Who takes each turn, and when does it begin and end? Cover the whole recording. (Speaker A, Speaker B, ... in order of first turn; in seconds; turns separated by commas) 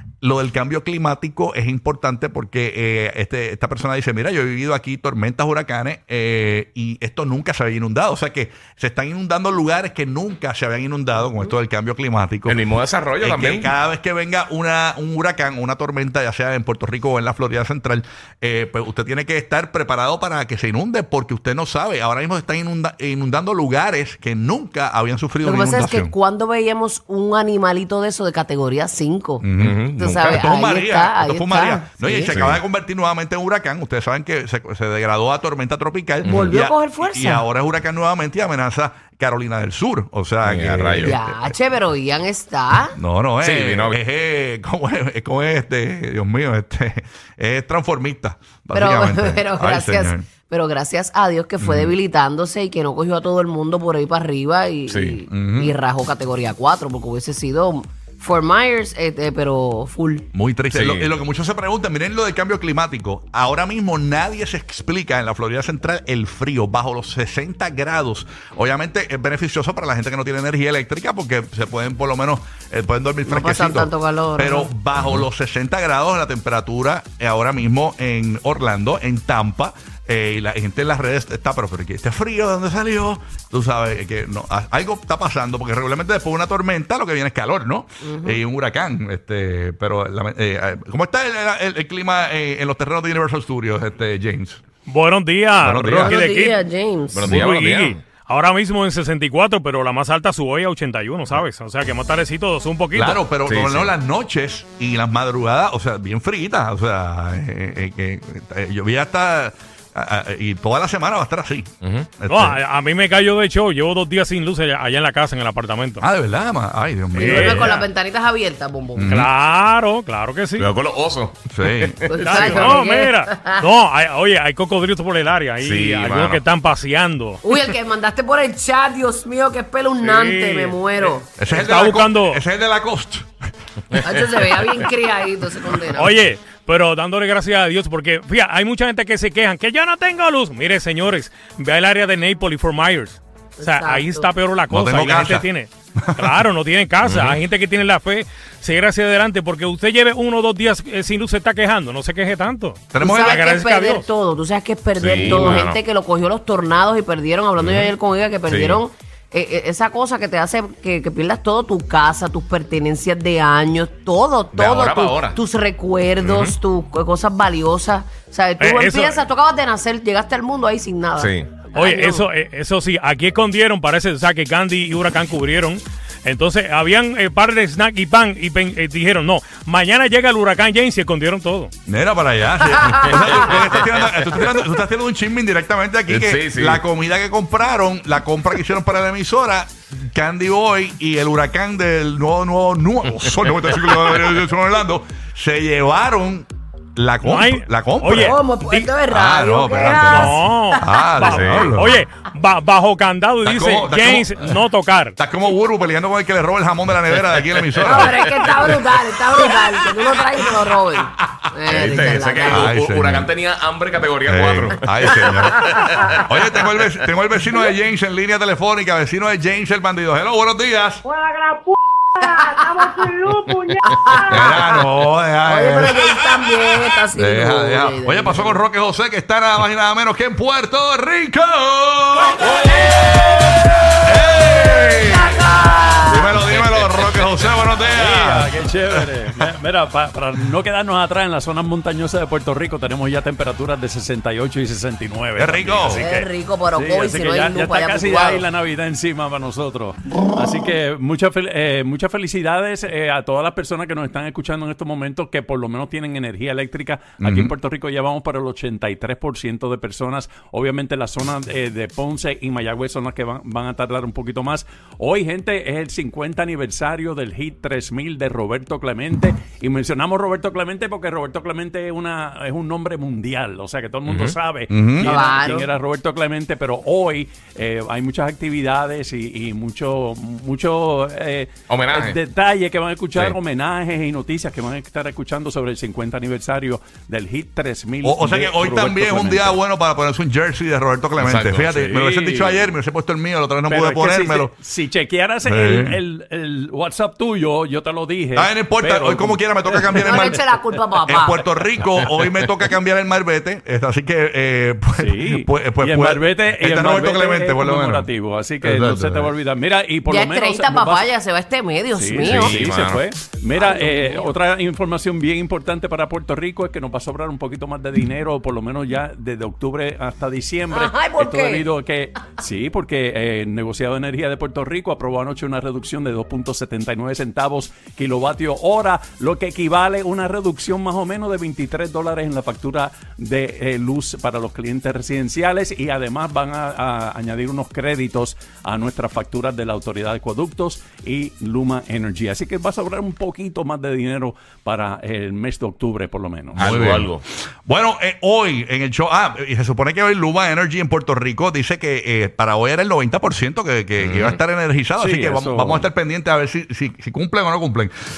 Speaker A: 0.2-12.6, Speaker B: 12.5-13.7, Speaker A: 13.2-26.1, Speaker C: 25.4-29.4, Speaker A: 29.4-41.4, Speaker B: 29.6-30.4, Speaker C: 30.0-32.4, Speaker B: 32.3-32.6, Speaker B: 36.2-36.5, Speaker C: 36.3-37.5, Speaker B: 40.4-41.1, Speaker C: 41.0-43.0, Speaker A: 42.9-50.2, Speaker B: 43.4-44.0, Speaker C: 48.7-60.3, Speaker A: 51.6-52.0, Speaker B: 54.9-55.2, Speaker A: 55.3-55.8, Speaker A: 60.3-94.6, Speaker B: 60.7-61.2, Speaker C: 73.3-74.7, Speaker C: 88.0-88.4, Speaker D: 94.9-96.6, Speaker A: 95.6-96.1, Speaker C: 96.1-97.4, Speaker B: 97.1-98.0, Speaker D: 97.3-103.2, Speaker A: 102.9-112.6, Speaker B: 103.5-103.9, Speaker B: 111.8-112.1, Speaker D: 112.3-116.1, Speaker A: 116.0-117.8, Speaker D: 117.2-117.8, Speaker C: 117.2-119.1, Speaker A: 119.0-119.3, Speaker D: 119.1-120.7, Speaker B: 120.6-122.3, Speaker A: 121.5-122.7, Speaker C: 122.1-123.6, Speaker D: 122.2-127.4, Speaker B: 125.6-126.4, Speaker C: 127.4-131.2, Speaker D: 130.0-132.4, Speaker A: 131.4-133.3, Speaker C: 133.9-136.1, Speaker D: 136.0-154.1, Speaker C: 143.6-144.3, Speaker A: 144.7-145.5, Speaker A: 146.0-146.4, Speaker B: 147.0-147.4, Speaker A: 152.9-153.4, Speaker C: 153.0-172.3, Speaker B: 155.0-155.8, Speaker B: 157.6-157.9, Speaker B: 158.5-158.8, Speaker B: 164.5-165.4, Speaker B: 166.2-166.5, Speaker D: 168.6-169.2, Speaker B: 171.2-171.6, Speaker D: 171.8-181.7, Speaker A: 181.9-198.4, Speaker C: 182.8-183.4, Speaker B: 183.1-184.4, Speaker B: 186.1-186.8, Speaker D: 197.2-198.9, Speaker C: 198.2-200.4, Speaker A: 199.1-202.0, Speaker D: 200.0-205.2, Speaker B: 201.2-201.7, Speaker A: 203.4-204.6, Speaker A: 205.2-208.8, Speaker B: 207.2-208.6, Speaker C: 207.8-212.7, Speaker B: 211.7-216.8, Speaker A: 211.8-213.3, Speaker A: 214.3-221.0, Speaker E: 221.1-224.5, Speaker C: 222.2-223.1, Speaker B: 223.5-223.7, Speaker C: 223.9-224.8, Speaker A: 224.3-232.5, Speaker C: 225.4-228.6, Speaker C: 232.4-233.3, Speaker F: 232.4-232.8, Speaker A: 234.0-235.4, Speaker C: 235.1-236.4, Speaker A: 236.1-239.4, Speaker F: 237.9-289.6, Speaker A: 245.4-246.1, Speaker C: 245.9-248.5, Speaker A: 257.2-257.5, Speaker B: 274.1-274.4, Speaker A: 274.7-275.1, Speaker C: 275.0-275.7, Speaker B: 281.7-282.2, Speaker A: 288.0-294.5, Speaker B: 291.2-291.9, Speaker F: 291.9-292.7, Speaker F: 293.7-300.4, Speaker A: 295.4-296.0, Speaker A: 298.4-300.4, Speaker C: 300.0-301.5, Speaker A: 301.1-308.1, Speaker F: 305.0-311.1, Speaker A: 308.6-309.4, Speaker C: 310.1-312.6, Speaker F: 311.9-346.6, Speaker B: 312.2-313.0, Speaker C: 313.6-314.3, Speaker C: 320.7-321.7, Speaker B: 346.6-347.2, Speaker A: 346.6-357.9, Speaker B: 354.0-354.4, Speaker F: 355.0-355.9